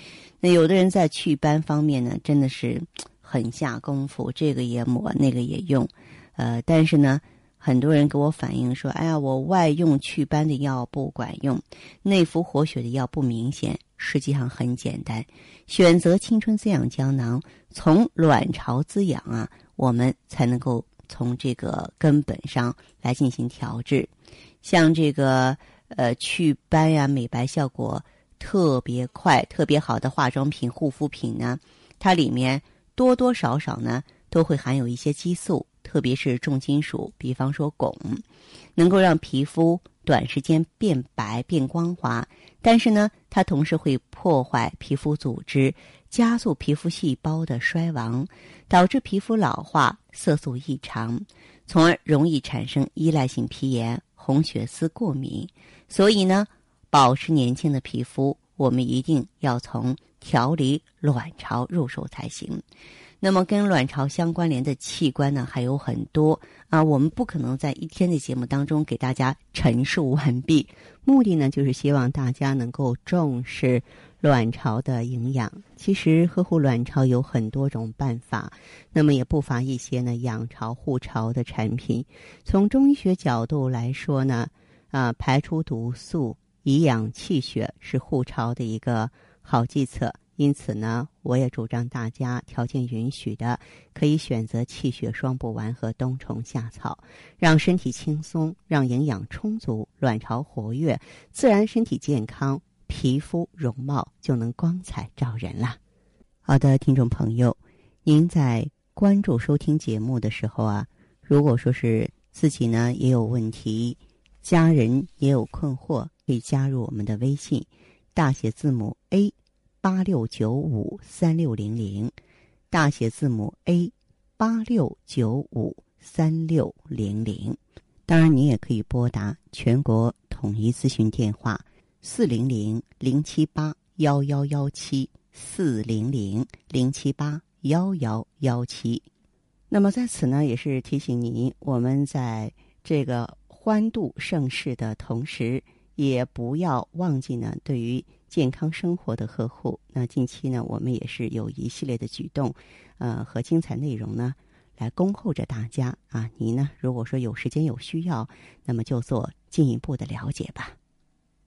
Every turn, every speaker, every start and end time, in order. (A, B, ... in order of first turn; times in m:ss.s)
0:00.4-0:24.1 A
0:24.6-0:38.2 A
0:38.8-1:02.6 A
1:03.2-1:45.8 A
1:46.4-2:02.1 A
2:02.7-2:19.0 A
2:19.7-2:40.7 A